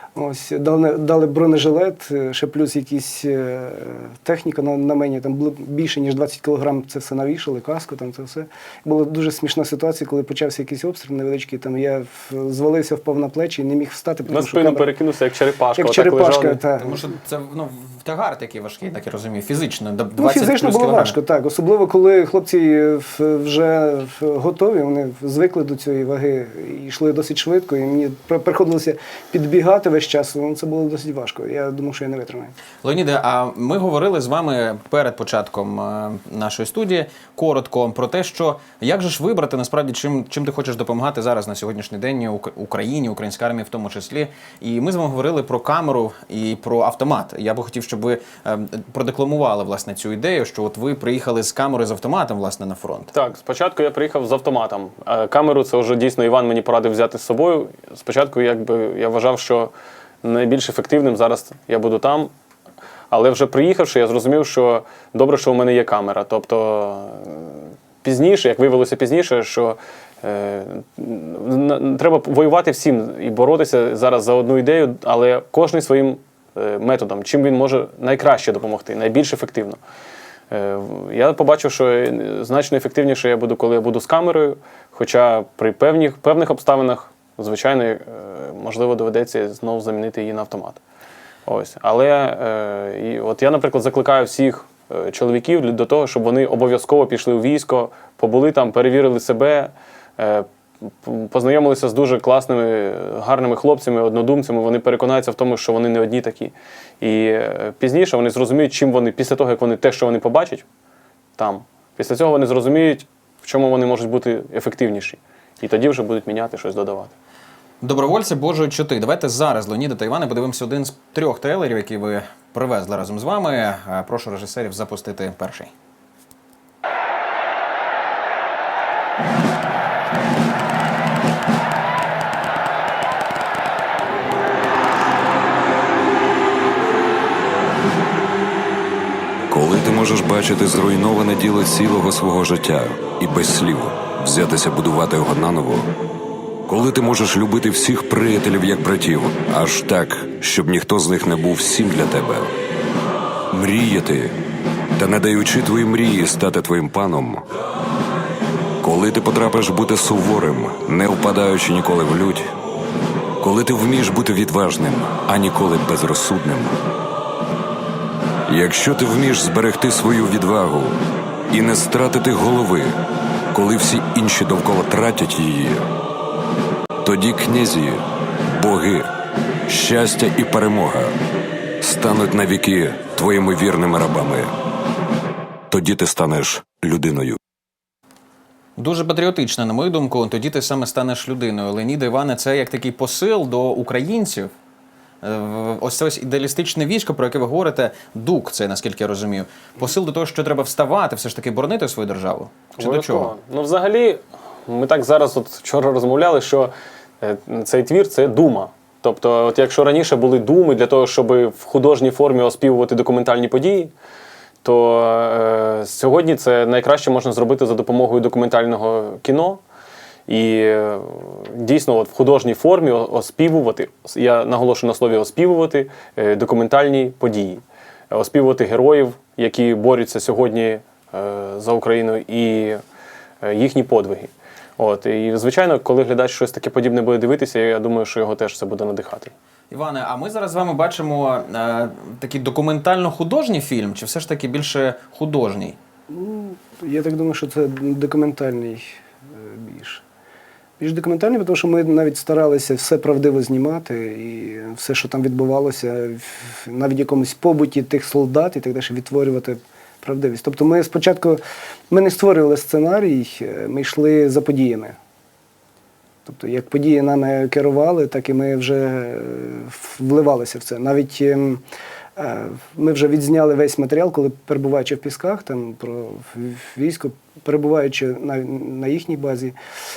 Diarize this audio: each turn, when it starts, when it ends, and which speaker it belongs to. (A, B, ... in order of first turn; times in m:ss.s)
0:00.1-0:14.9 A
0:14.3-0:16.6 B
0:15.8-0:17.0 A
0:16.8-0:21.2 C
0:20.2-0:32.5 A
0:32.8-0:53.1 C
0:53.1-0:59.7 B
1:00.2-1:02.3 B
1:03.1-1:19.8 B
1:20.5-1:30.8 B
1:31.5-1:40.4 B
1:41.0-1:50.6 B
1:51.4-1:57.1 B
1:57.8-2:05.7 C
2:19.5-2:25.9 D
2:26.7-2:32.5 D
2:33.5-2:34.4 D
2:35.0-2:37.4 D
2:38.8-2:42.5 D
2:43.4-2:46.8 D
2:48.5-2:51.0 D
2:51.5-2:53.0 D
2:53.5-2:55.9 D
2:57.0-2:59.1 D
2:59.7-3:01.2 D
3:01.8-3:04.5 D
3:05.7-3:07.4 D
3:08.8-3:14.5 C
3:15.2-3:23.3 C
3:22.8-3:33.9 B
3:34.6-3:39.6 B
3:40.3-3:52.8 B
3:53.4-3:59.3 B
3:59.7-4:05.8 C
4:06.1-4:10.0 A
4:10.8-4:25.0 A
4:26.2-4:31.6 A
4:32.2-4:39.5 A